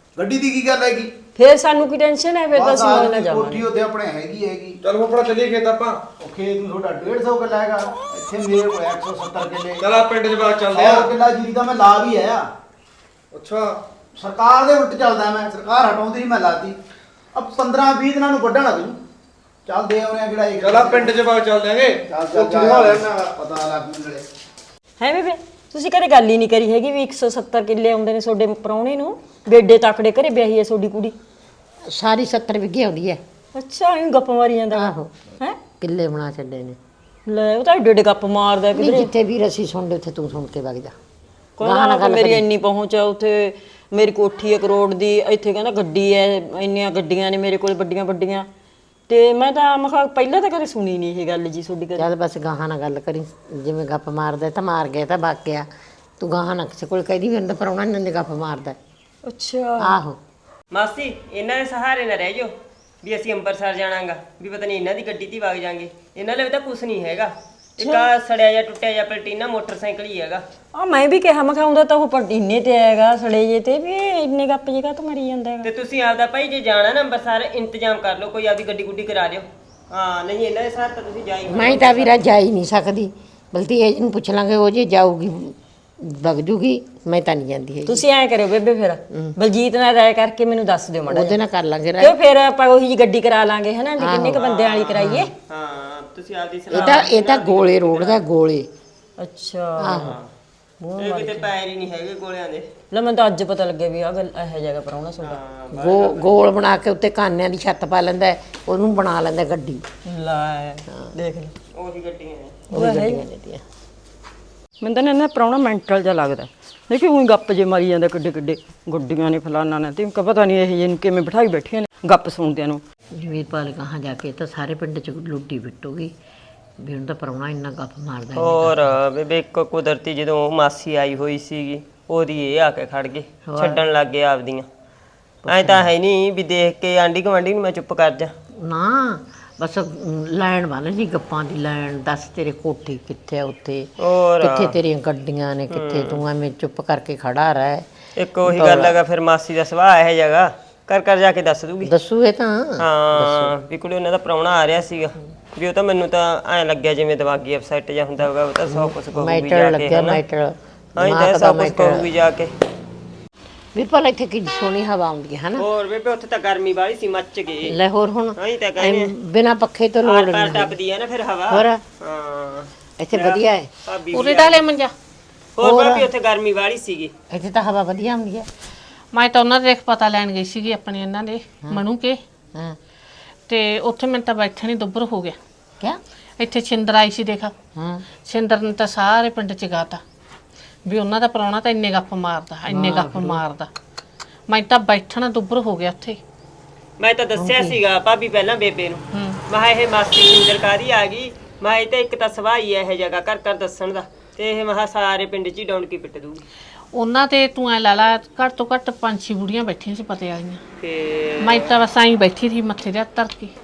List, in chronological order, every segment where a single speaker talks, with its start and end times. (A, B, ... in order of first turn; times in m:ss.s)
0:00.2-0:01.1 A
0:01.4-0:03.7 B
0:02.5-0:04.8 A
0:04.8-0:06.0 C
0:06.2-0:09.8 A
0:09.8-0:11.1 C
0:10.7-0:12.5 A
0:13.3-0:13.8 C
0:14.2-0:16.8 A
0:17.4-0:19.0 A
0:19.7-0:21.2 A
0:20.6-0:23.3 C
0:22.1-0:24.2 A
0:25.0-0:31.2 B
0:31.9-0:33.2 D
0:33.5-0:35.6 B
0:34.7-0:35.1 D
0:35.8-0:36.8 D
0:37.3-0:39.1 B
0:38.7-0:40.9 D
0:41.6-0:48.5 B
0:41.6-0:42.5 D
0:49.1-0:52.1 B
0:52.0-0:55.7 D
0:56.2-0:58.8 D
0:59.2-1:00.0 B
0:59.8-1:00.2 D
1:00.7-1:02.5 E
1:03.0-1:10.4 E
1:07.8-1:08.1 B
1:10.7-1:15.7 B
1:15.6-1:22.2 E
1:21.5-1:28.0 D
1:27.9-1:31.4 B
1:31.1-1:32.2 D
1:32.0-1:35.3 B
1:34.0-1:34.4 D
1:34.4-1:38.2 E
1:35.0-1:35.3 D
1:36.7-1:38.7 D
1:36.7-1:37.0 B
1:39.2-1:40.2 B
1:39.8-1:40.2 D
1:39.9-1:40.3 E
1:40.8-1:41.4 D
1:40.9-1:41.2 B
1:41.0-1:42.7 E
1:42.9-1:45.4 B
1:45.2-1:46.4 E
1:45.7-1:49.8 D
1:50.0-1:51.6 B
1:51.8-1:52.7 E
1:52.7-1:53.6 D
1:52.8-1:53.2 B
1:54.8-2:02.8 B
2:03.2-2:06.1 D
2:06.8-2:09.0 D
2:08.3-2:14.7 E
2:13.5-2:13.8 D
2:15.4-2:15.9 D
2:15.5-2:18.3 E
2:18.6-2:27.9 D
2:24.0-2:24.8 E
2:25.7-2:26.2 E
2:28.2-2:31.9 E
2:28.4-2:29.0 D
2:31.8-2:33.5 D
2:32.8-2:40.2 E
2:38.7-2:42.1 D
2:41.0-2:42.5 E
2:43.8-2:45.6 D
2:45.6-2:47.8 E
2:47.7-2:50.8 D
2:48.4-2:49.1 E
2:50.0-2:54.6 E
2:51.5-2:51.8 D
2:53.0-2:53.7 D
2:54.1-2:54.9 F
2:55.6-2:57.1 E
2:55.6-2:56.1 D
2:57.3-2:58.5 D
2:59.1-3:02.2 F
3:03.5-3:05.4 F
3:06.4-3:07.5 F
3:07.8-3:08.1 D
3:08.2-3:10.0 F
3:10.9-3:13.7 F
3:12.7-3:13.4 D
3:14.5-3:16.2 F
3:17.0-3:26.4 E
3:17.4-3:17.8 D
3:19.1-3:19.4 F
3:26.9-3:30.6 F
3:30.8-3:31.8 E
3:31.4-3:33.5 F